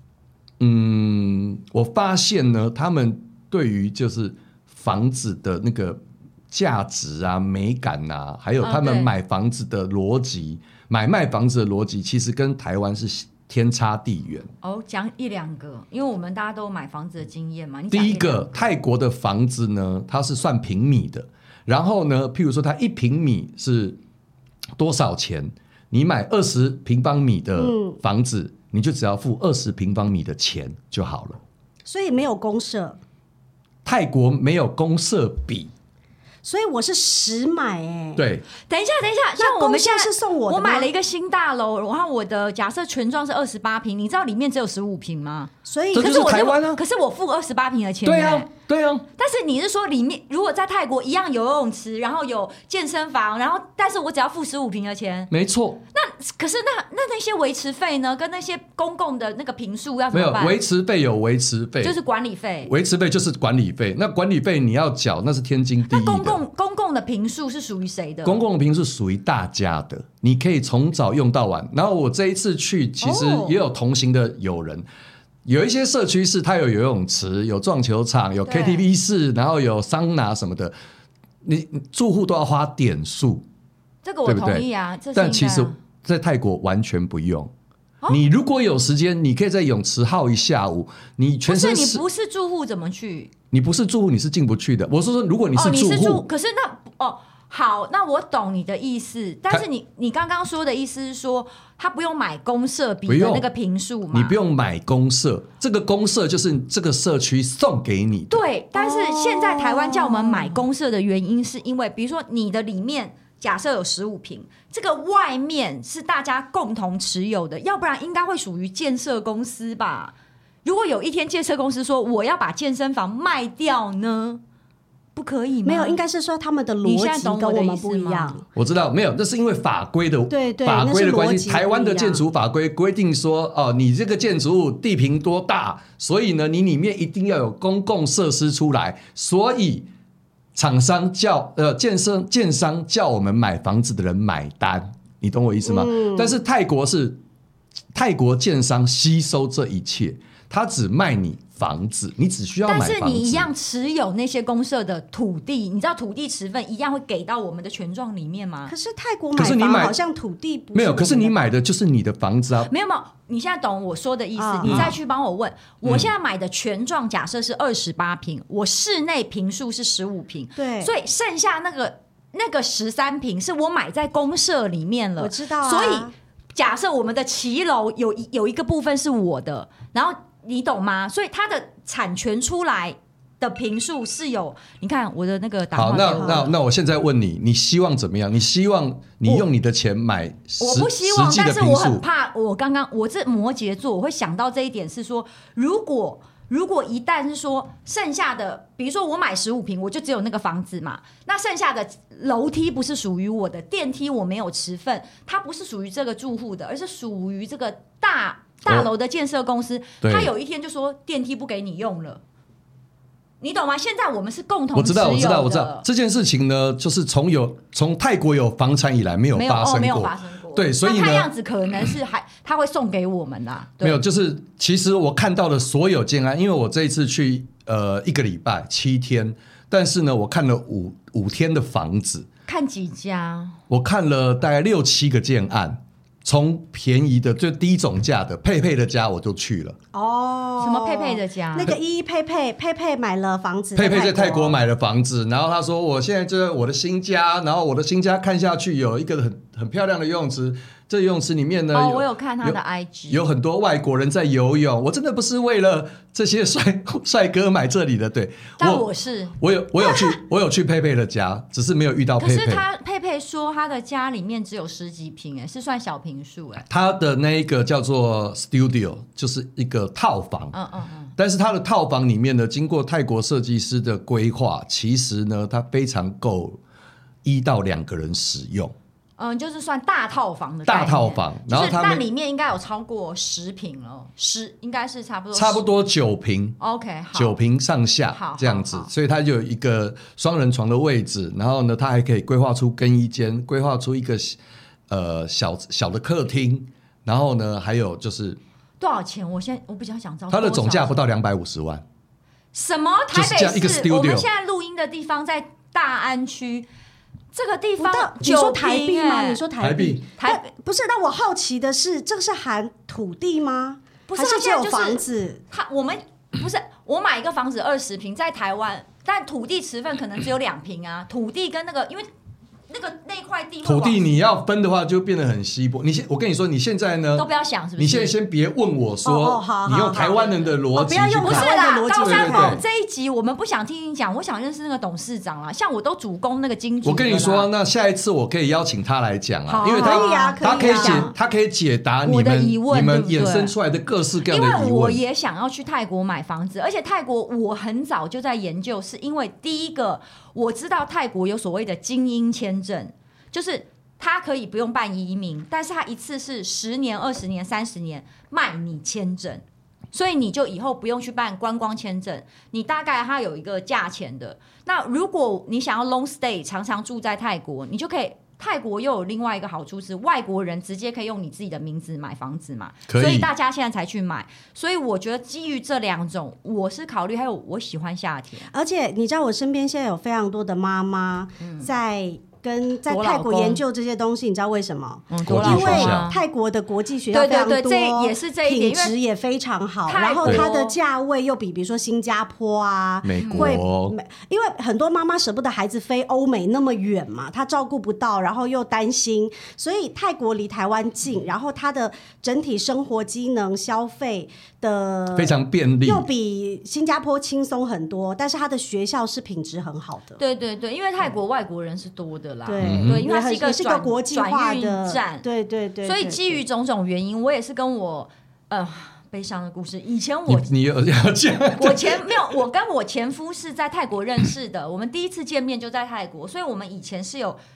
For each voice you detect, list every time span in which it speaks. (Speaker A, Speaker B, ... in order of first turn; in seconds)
Speaker A: 0.6-14.5, 17.9-24.0, 24.8-31.4, 33.8-35.7, 38.1-38.5, 45.9-46.8, 48.0-49.0, 55.3-55.8, 60.1-62.0, 62.6-66.4, 68.2-74.9, 75.4-80.7, 81.4-83.5, 84.2-87.5, 88.1-92.0, 93.5-96.2, 103.1-103.5, 104.1-108.4, 128.5-139.9, 140.5-147.2, 147.9-153.5, 159.3-159.9, 160.7-162.7, 164.6-164.9, 165.8-166.1, 185.7-192.0, 210.0-210.3, 214.7-221.3, 223.8-232.3, 233.7-239.8, 243.8-252.6, 253.1-258.9, 259.4-262.6, 266.7-270.5, 271.2-276.6, 277.2-278.7, 280.6-282.0, 285.3-286.6, 287.1-294.4, 294.9-298.4, 300.3-301.8, 303.1-304.3, 309.6-310.0, 323.6-332.6, 336.8-345.0, 372.9-373.3, 385.2-386.1, 393.0-393.9, 405.1-406.1, 412.6-413.0, 420.3-422.3
Speaker B: 8.6-9.1, 14.6-18.7, 38.7-48.5, 49.2-55.3, 55.9-60.6, 61.8-62.7, 65.9-68.4, 78.5-78.8, 84.0-85.8, 91.5-93.3, 95.5-104.4, 108.3-124.4, 125.1-126.0, 126.8-128.4, 152.7-158.7, 162.7-186.5, 190.6-212.2, 213.4-215.8, 219.3-224.0, 232.5-233.6, 240.6-241.7, 251.7-253.2, 258.6-260.0, 262.2-266.7, 270.5-271.1, 279.2-285.6, 286.6-287.4, 288.1-288.9, 298.8-301.0, 302.5-306.7, 307.3-309.4, 310.2-310.4, 314.1-322.1, 322.7-324.1, 327.1-328.1, 331.2-337.5, 339.5-341.1, 342.0-343.5, 344.3-378.5, 381.4-381.7, 382.9-383.6, 385.1-386.2, 387.1-388.9, 389.9-390.8, 393.2-393.5, 410.2-415.2, 415.8-420.5, 421.6-427.4
Speaker C: 27.6-28.0, 31.8-33.0, 36.4-38.2, 39.4-40.9, 45.6-46.2, 73.0-73.5, 108.7-110.6, 125.6-128.4, 130.3-132.2, 145.6-146.4, 158.7-161.5, 164.4-164.9, 170.6-170.9, 175.2-176.1, 186.1-186.5, 239.9-244.6, 307.8-315.4, 329.0-332.6, 339.7-341.1, 378.5-410.2, 412.4-416.4